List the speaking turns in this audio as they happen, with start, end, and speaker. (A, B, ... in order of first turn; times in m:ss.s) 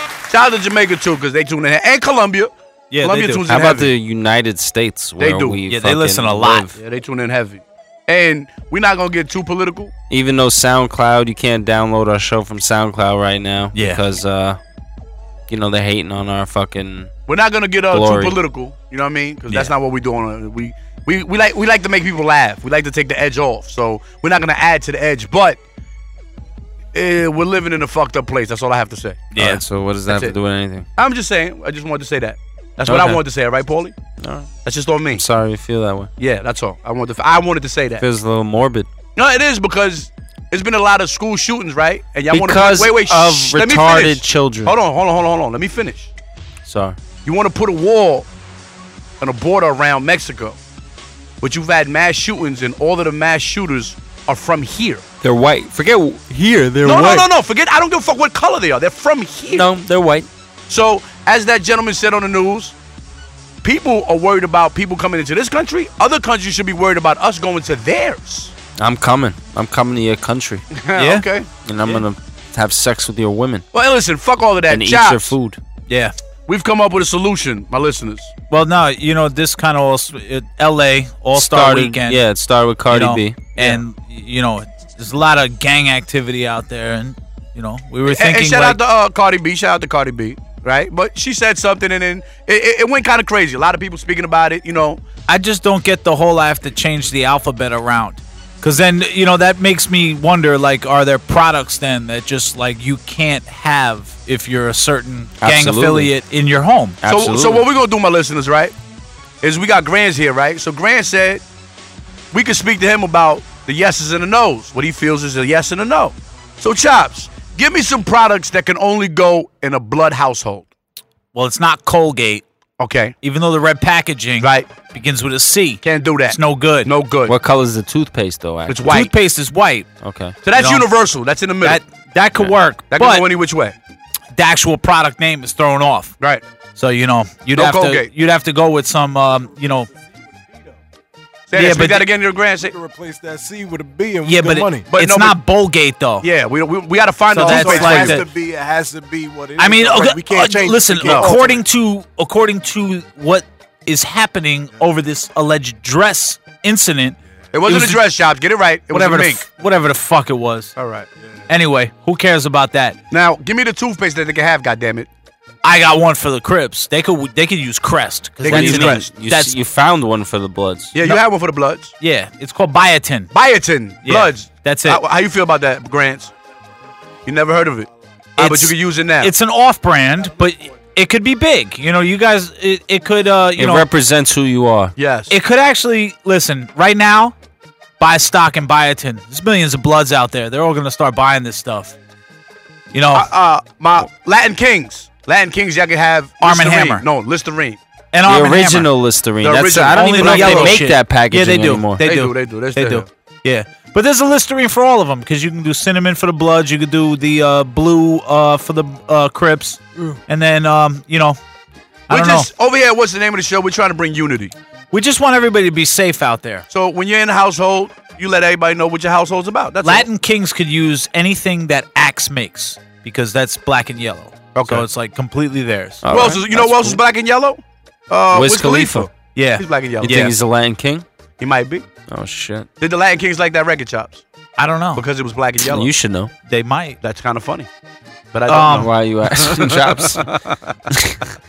0:00.3-0:03.9 A
0:02.9-0:03.5 B
0:03.5-0:06.8 C
0:05.2-0:05.6 A
0:05.7-0:06.7 B
0:06.8-0:09.9 A
0:10.1-0:14.6 C
0:13.7-0:14.0 B
0:15.5-0:17.1 C
0:17.3-0:25.6 A
0:17.9-0:18.4 C
0:26.9-0:29.3 A
0:29.3-0:29.6 B
0:29.4-0:30.9 C
0:30.1-0:30.3 A
0:31.0-0:34.0 A
0:32.9-0:33.2 C
0:34.2-0:34.5 C
0:34.6-0:35.2 A
0:35.1-0:36.1 C
0:36.2-0:38.0 A
0:38.0-0:38.9 C
0:39.2-0:46.1 A
0:42.3-0:44.8 C
0:46.6-0:47.0 C
0:47.2-0:48.3 A
0:49.2-0:50.6 A
0:51.4-0:55.0 A
0:55.2-0:57.2 C
0:56.8-0:57.2 B
0:56.8-0:59.7 A
0:59.5-1:00.3 C
1:00.7-1:02.8 A
1:03.6-1:08.5 A
1:08.8-1:10.6 C
1:10.8-1:12.0 A
1:11.0-1:11.2 B
1:11.6-1:13.6 C
1:13.7-1:15.4 A
1:14.7-1:15.6 C
1:15.9-1:16.1 B
1:16.5-1:18.3 A
1:18.5-1:22.2 B
1:21.3-1:23.5 C
1:22.9-1:28.8 B
1:28.0-1:35.0 A
1:35.3-1:47.0 B
1:45.4-1:46.1 C
1:47.0-1:47.6 C
1:47.1-1:48.7 A
1:49.4-1:51.4 A
1:52.3-2:00.7 A
2:01.3-2:02.4 B
2:02.8-2:03.1 A
2:03.2-2:06.9 B
2:04.4-2:04.7 A
2:05.8-2:07.3 A
2:07.3-2:09.0 C
2:08.7-2:09.1 A
2:08.9-2:09.9 B
2:10.0-2:10.4 C
2:10.4-2:11.8 A
2:10.5-2:10.9 B
2:11.6-2:13.3 B
2:12.9-2:13.8 A
2:14.4-2:16.2 B
2:16.8-2:19.9 B
2:17.5-2:18.1 A
2:19.8-2:20.8 D
2:21.5-2:22.8 A
2:21.5-2:22.1 B
2:22.6-2:24.9 D
2:24.2-2:26.2 B
2:25.0-2:25.4 A
2:26.2-2:28.2 A
2:27.3-2:28.3 B
2:27.4-2:31.6 D
2:29.6-2:38.1 B
2:31.0-2:31.4 A
2:37.5-2:39.4 A
2:38.9-2:40.8 B
2:40.8-2:41.1 A
2:41.5-2:43.0 B
2:43.1-2:45.1 A
2:45.6-2:49.5 B
2:48.4-2:49.1 A
2:48.4-2:51.0 C
2:50.9-2:51.9 A
2:52.0-2:53.4 B
2:53.3-2:56.3 A
2:54.0-2:55.0 B
2:57.2-2:59.3 A
2:58.4-3:03.9 B
3:03.6-3:05.0 C
3:05.0-3:05.4 A
3:05.3-3:07.3 B
3:08.0-3:12.0 B
3:12.9-3:13.3 B
3:13.1-3:17.8 A
3:16.4-3:17.0 B
3:18.1-3:18.9 B
3:18.2-3:22.0 C
3:19.4-3:20.8 A
3:19.9-3:31.4 B
3:22.0-3:23.1 A
3:32.1-3:32.5 B
3:32.1-3:34.5 A
3:34.9-3:36.6 B
3:36.7-3:40.1 A
3:39.8-3:46.0 B
3:44.5-3:44.9 A
3:46.0-3:47.0 C
3:46.1-3:50.3 A
3:48.3-3:49.1 C
3:49.3-3:50.3 B
3:50.0-3:51.0 C
3:51.4-3:51.9 A
3:52.1-3:52.7 C
3:52.8-3:54.2 A
3:54.6-3:55.0 B
3:55.0-3:55.9 A
3:55.6-3:56.3 C
3:56.5-3:57.0 B
3:57.0-3:57.7 A
3:58.3-4:00.6 A
3:58.5-3:58.9 B
3:58.6-4:00.2 C
4:00.9-4:01.2 C